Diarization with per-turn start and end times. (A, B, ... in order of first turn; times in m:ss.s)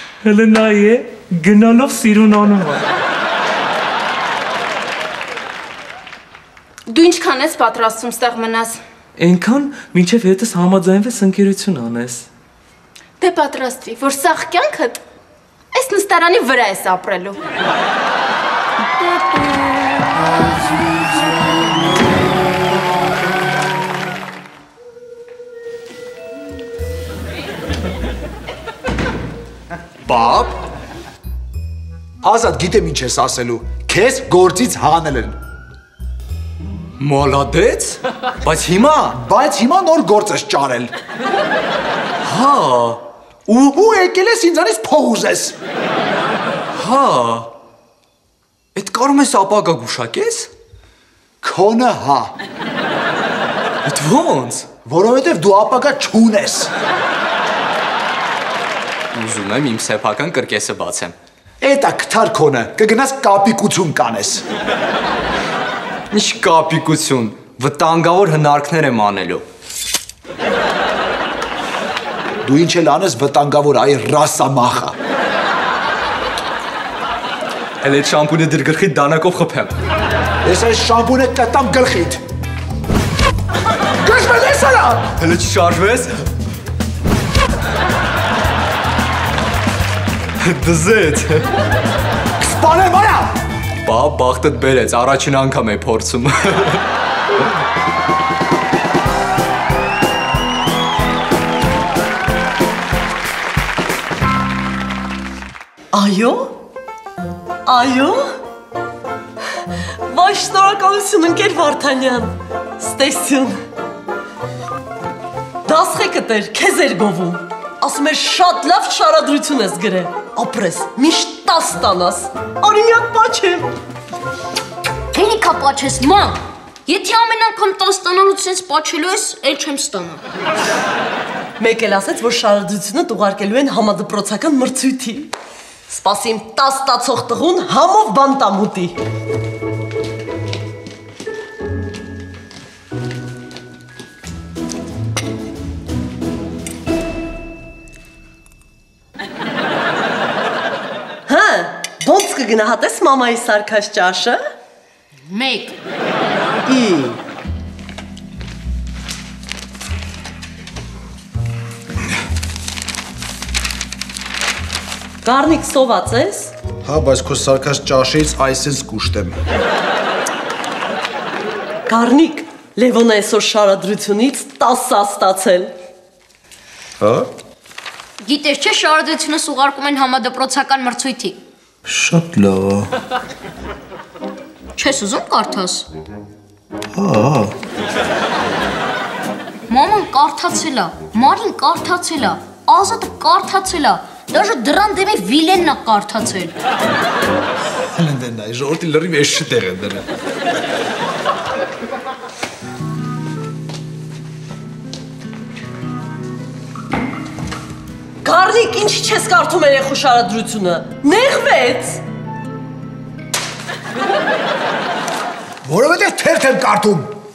0:00.2-0:02.8 A
0:06.9-0:08.8 B
0:09.2-0:12.3 A
0:13.2-0:15.0 B
0:15.7-0:17.4 B
0:30.0-0:30.6 C
0:32.2-0:35.4 D
0:37.0-0:39.2 C
0:39.1-0:40.9 D
0:42.2-0:43.0 C
0:43.5-0:45.6 D
0:46.7-0:47.5 C
0:48.7-0:50.5 C
0:51.4-0:52.3 D
0:53.8-0:54.7 C
0:54.8-0:56.7 D
0:59.1-1:01.2 C
1:01.6-1:04.4 D
1:06.1-1:09.4 C
1:12.4-1:15.0 D
1:17.8-1:19.7 C
1:20.4-1:22.2 D
1:24.0-1:25.1 D
1:25.2-1:26.1 C
1:30.4-1:31.4 C
1:32.4-1:33.4 D
1:33.8-1:36.8 C
1:45.9-1:46.6 E
1:47.6-1:48.3 E
1:50.1-1:53.6 E
1:55.6-2:03.7 E
2:05.1-2:10.2 F
2:11.6-2:15.3 E
2:15.9-2:19.0 E
2:31.3-2:34.4 E
2:35.3-2:35.8 B
2:36.6-2:37.2 E
2:45.2-2:46.5 E
2:46.8-2:49.4 D
2:51.9-2:55.7 E
2:57.0-2:57.3 D
2:58.2-3:01.4 F
3:01.9-3:02.9 D
3:04.8-3:05.9 F
3:07.0-3:07.5 D
3:09.7-3:16.6 F
3:17.9-3:20.0 D
3:28.2-3:32.0 E
3:35.6-3:37.2 D